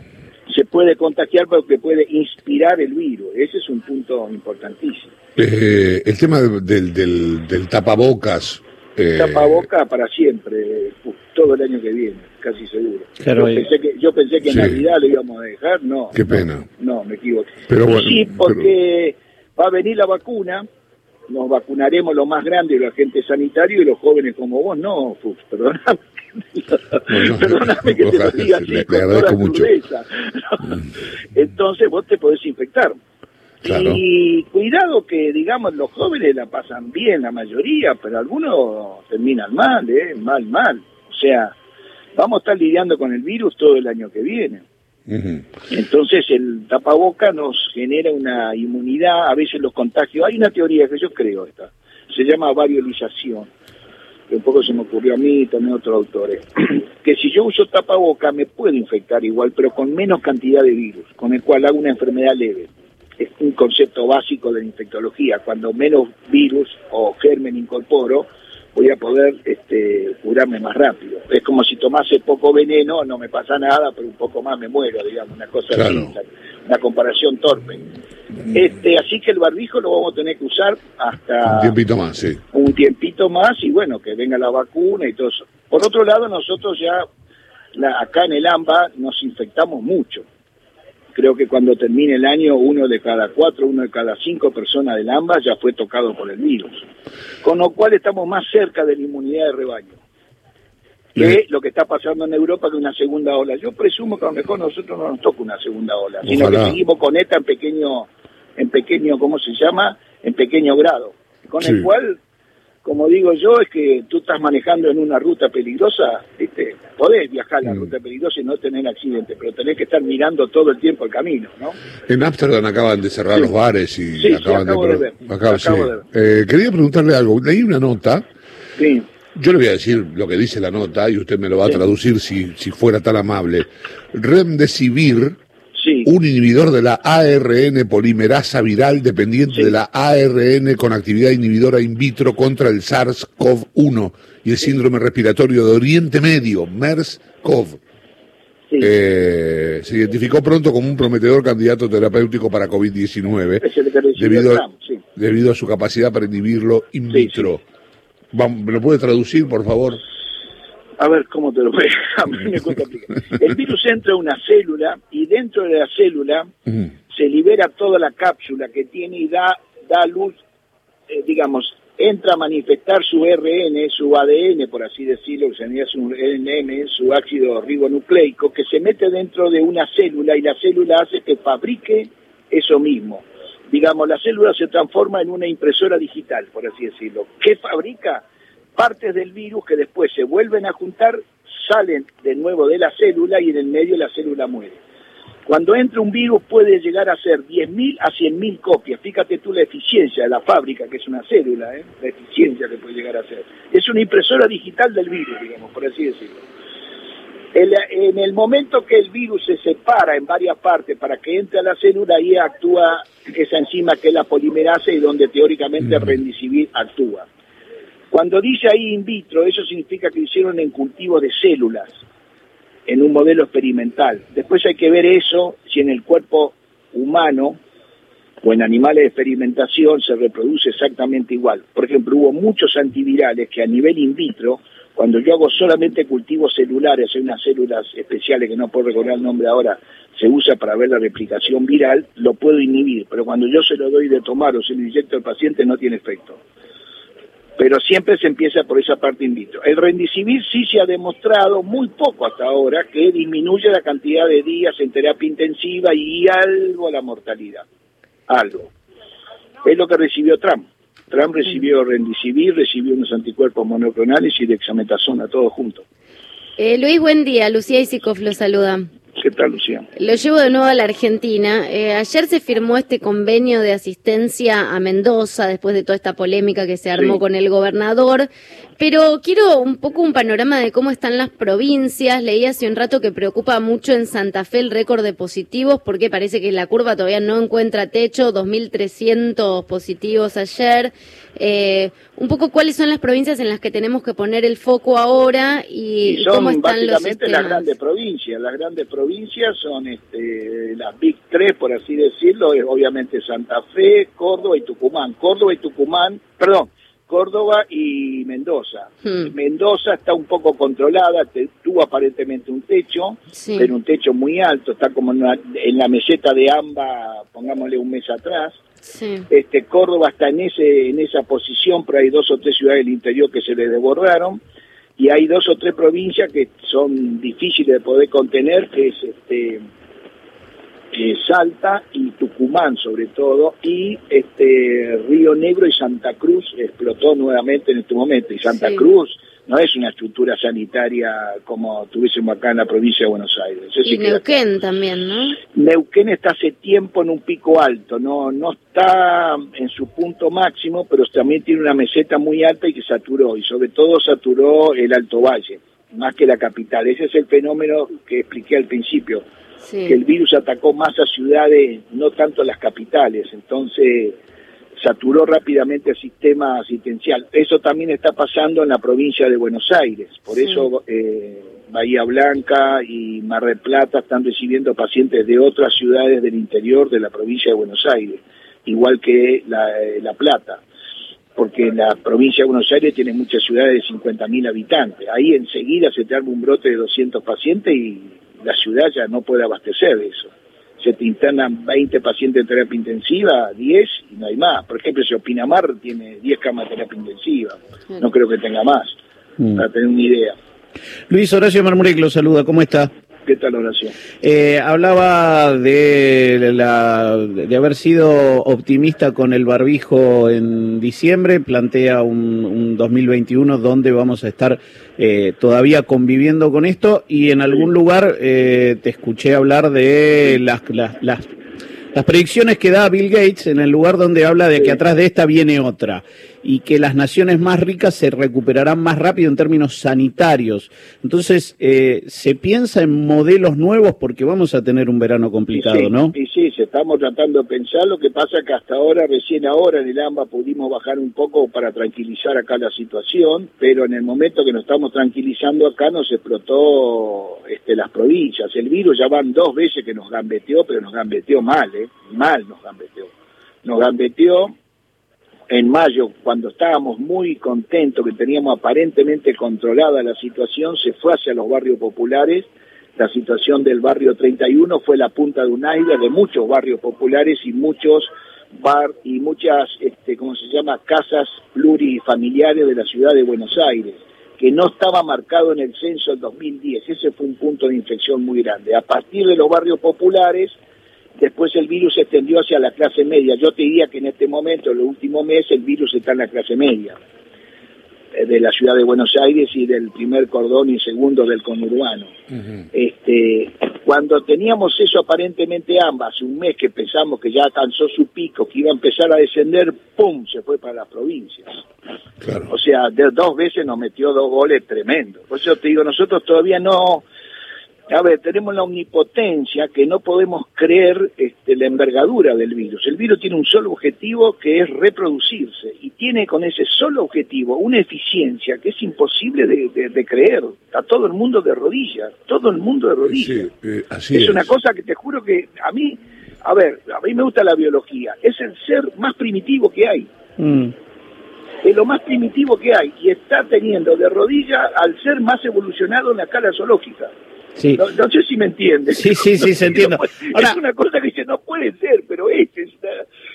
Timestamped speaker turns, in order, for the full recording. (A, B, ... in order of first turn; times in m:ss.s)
0:00.5-0:05.1 A
0:05.4-0:09.6 B
0:09.1-0:20.6 A
0:13.2-0:13.6 C
0:14.4-0:14.8 B
0:16.1-0:16.6 B
0:17.7-0:18.7 B
0:21.3-0:30.8 A
0:27.1-0:29.7 B
0:31.3-0:33.0 A
0:33.6-0:34.0 B
0:33.6-0:41.5 A
0:42.2-0:44.6 A
0:45.1-0:45.4 B
0:45.7-0:53.5 A
0:54.3-1:17.8 A
1:15.7-1:16.1 B
1:18.5-1:21.8 A
1:21.4-1:22.4 B
1:22.5-1:27.0 A
1:27.7-1:30.2 A
1:31.1-1:36.8 A
1:37.4-1:40.0 A
1:41.1-1:52.2 A
1:46.2-1:46.8 B
1:52.8-2:01.8 A
2:02.1-2:08.2 B
2:04.2-2:06.0 A
2:08.8-2:09.1 A
2:09.3-2:15.4 B
2:15.7-2:16.1 A
2:16.0-2:27.8 B
2:19.5-2:19.8 A
2:28.8-2:34.6 B
2:33.6-2:35.0 A
2:35.1-2:37.6 B
2:37.1-2:37.5 A
2:38.3-2:40.0 B
2:41.0-2:46.5 A
2:47.1-2:50.4 A
2:51.1-3:08.2 A
3:08.8-3:14.8 A
3:15.5-3:26.4 A
3:27.5-3:37.3 A
3:38.1-3:41.9 A
3:42.9-3:47.6 A
3:48.4-4:06.4 A
4:07.6-4:17.6 A
4:18.3-4:18.7 A
4:19.6-4:25.8 A
4:26.6-4:28.8 D
4:29.2-4:29.9 A
4:30.0-4:57.7 D
4:37.0-4:37.2 A
4:56.0-5:18.6 A
5:09.0-5:09.3 D
5:13.3-5:13.7 D
5:18.9-5:19.2 D
5:19.3-5:24.4 A
5:25.0-5:29.6 A
5:30.9-5:44.4 A
5:38.5-5:38.8 D
5:43.8-5:45.4 D
5:45.5-5:59.2 A
5:59.6-6:00.0 D
5:59.8-6:04.2 A
6:04.8-6:20.6 A
6:10.4-6:10.6 D
6:21.4-6:38.9 A
6:39.6-6:40.4 A
6:41.1-6:42.9 C
6:43.2-6:43.9 A
6:44.2-7:01.3 C
7:01.9-7:16.1 C
7:15.5-7:33.1 A
7:33.6-7:34.5 A
7:35.5-8:00.5 A
8:01.2-8:07.0 A
8:08.1-8:12.1 A
8:12.7-8:21.6 A
8:22.2-8:22.5 B
8:22.5-8:27.0 A
8:27.9-8:43.4 A
8:43.1-8:44.5 B
8:44.1-8:50.1 A
8:50.4-8:50.7 C
8:51.6-8:57.1 A
8:57.6-8:57.8 C
8:57.8-9:03.0 A
8:58.9-9:00.6 C